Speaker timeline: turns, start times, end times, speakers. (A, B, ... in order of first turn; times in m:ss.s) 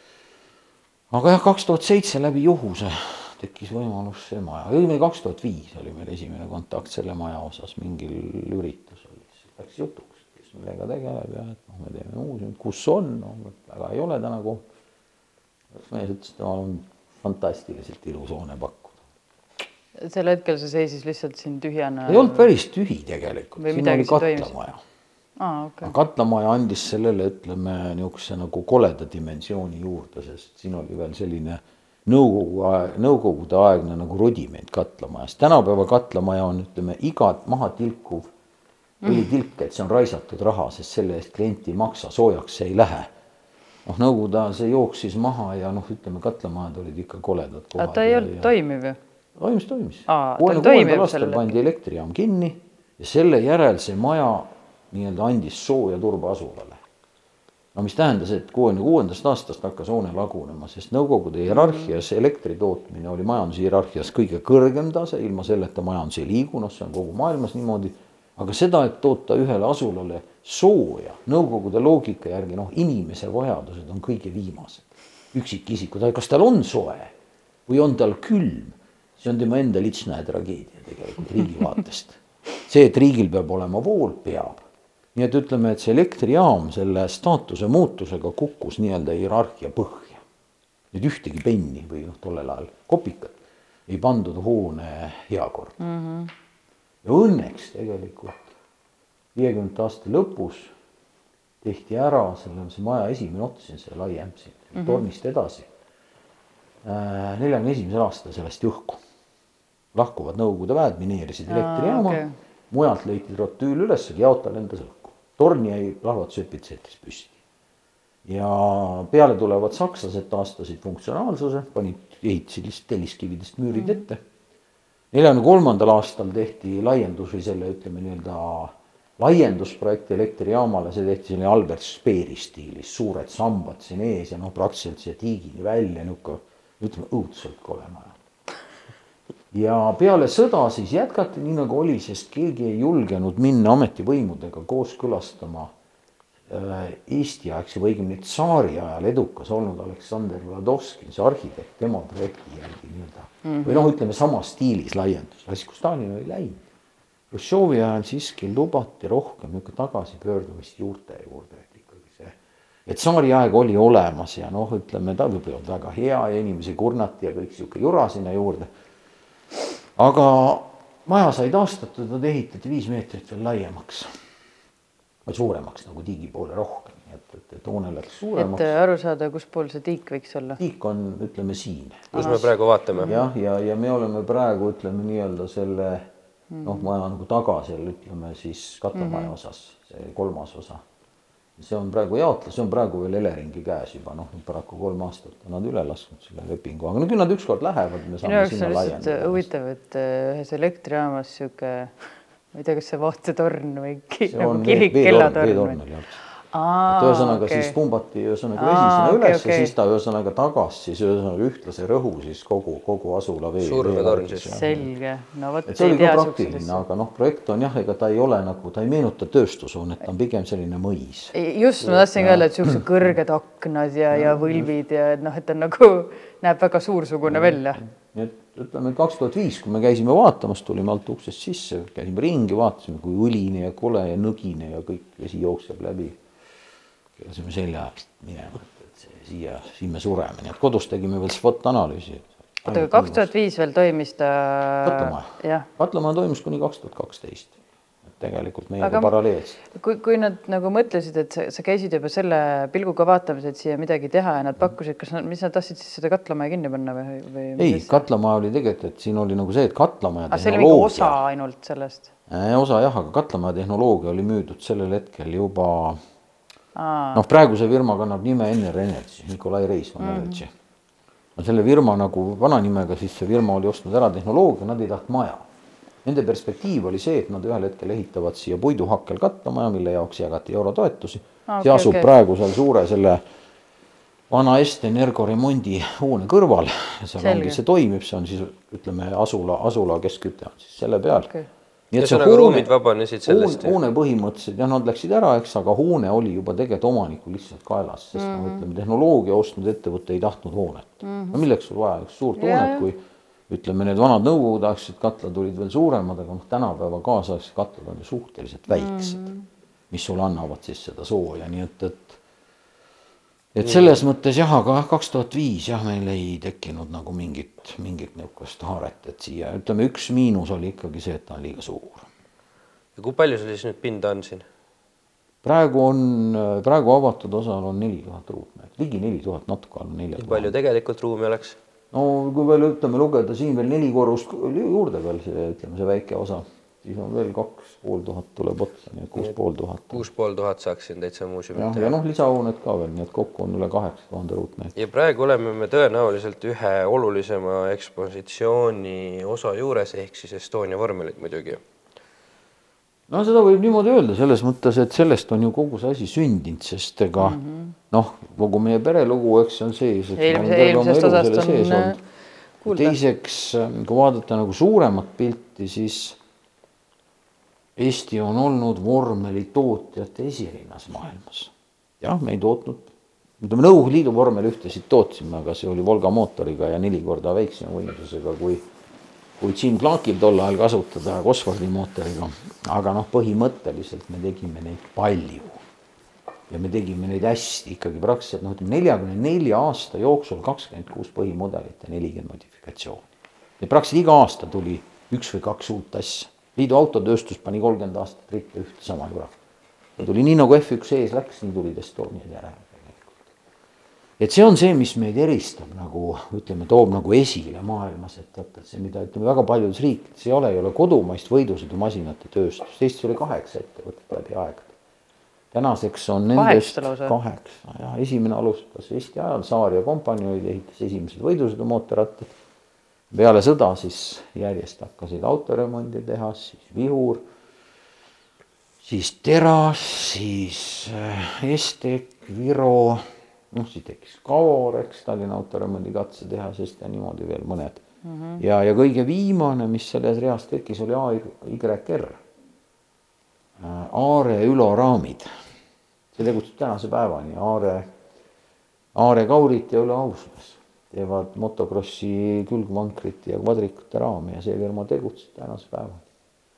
0:01.1-0:14.6 A
0:15.7-0:19.0 A
0:20.0-0:22.5 B
0:22.1-0:24.8 A
0:23.6-0:24.5 B
0:25.4-0:25.9 B
0:25.8-0:38.3 A
0:39.0-0:43.1 A
0:43.8-0:48.5 A
0:47.8-0:49.0 B
0:49.4-0:56.8 A
0:50.1-0:51.5 B
0:57.7-1:17.1 A
1:01.5-1:01.9 B
1:17.7-1:24.6 A
1:25.1-1:30.2 A
1:30.9-1:35.8 A
1:35.8-1:36.3 B
1:37.0-1:38.5 A
1:39.3-1:40.7 A
1:41.6-1:45.7 A
1:44.7-1:45.0 B
1:46.8-1:49.0 A
1:49.9-1:57.4 A
1:51.5-1:52.4 B
1:58.2-2:04.2 A
2:05.1-2:18.2 A
2:19.5-2:25.7 A
2:26.5-2:36.6 A
2:33.4-2:33.9 B
2:37.3-2:48.7 A
2:50.0-2:54.1 A
2:55.2-2:58.7 A
2:58.4-3:00.6 B
3:00.6-3:02.5 A
3:02.1-3:03.1 C
3:03.0-3:06.1 A
3:06.5-3:06.9 B
3:06.6-3:10.8 A
3:08.9-3:09.3 B
3:11.6-3:19.4 A
3:18.2-3:21.9 B
3:22.5-3:25.8 B
3:24.3-3:26.2 A
3:26.5-3:27.8 B
3:26.9-3:34.9 A
3:28.6-3:29.7 B
3:33.6-3:34.5 C
3:34.5-3:36.8 B
3:35.6-3:41.3 A
3:41.3-3:47.8 B
3:42.2-3:42.8 A
3:44.1-3:44.7 A
3:47.2-3:56.2 A
3:57.2-4:03.3 A
4:02.7-4:05.7 B
4:04.8-4:09.6 A
4:08.8-4:09.1 B
4:09.7-4:18.0 B
4:17.6-4:21.2 A
4:20.3-4:22.1 B
4:22.3-4:26.0 A
4:26.8-4:27.2 B
4:27.1-4:30.5 A
4:30.0-4:30.4 B
4:31.4-4:35.5 A
4:36.0-4:43.2 A
4:41.5-4:42.1 B
4:44.3-4:51.3 A
4:47.2-4:47.6 B
4:51.9-4:52.7 A
4:52.0-4:53.8 C
4:53.2-5:09.2 A
4:58.2-4:58.6 B
5:01.0-5:01.4 B
5:02.4-5:02.8 B
5:08.7-5:09.4 B
5:09.9-5:12.2 A
5:13.5-5:22.1 A
5:13.6-5:14.0 C
5:23.0-5:24.4 C
5:25.4-5:30.5 A
5:30.2-5:31.6 C
5:31.9-5:40.0 A
5:39.9-5:41.9 C
5:41.5-5:44.7 A
5:44.7-5:51.6 C
5:53.1-5:57.4 A
5:57.2-5:57.7 B
5:57.9-6:02.0 A
6:00.2-6:02.0 B
6:02.6-6:03.0 B
6:02.6-6:06.2 A
6:07.8-6:12.9 A
6:13.4-6:18.6 A
6:19.4-6:25.6 A
6:26.5-6:33.0 A
6:33.6-6:39.3 A
6:40.0-6:43.3 A
6:44.2-6:54.7 A
6:55.5-7:02.3 A
6:56.3-6:57.2 B
7:03.1-7:07.2 A
7:08.8-7:17.8 A
7:18.0-7:18.4 B
7:18.4-7:22.2 A
7:23.6-7:25.3 A
7:26.1-7:27.9 A
7:28.9-7:36.0 A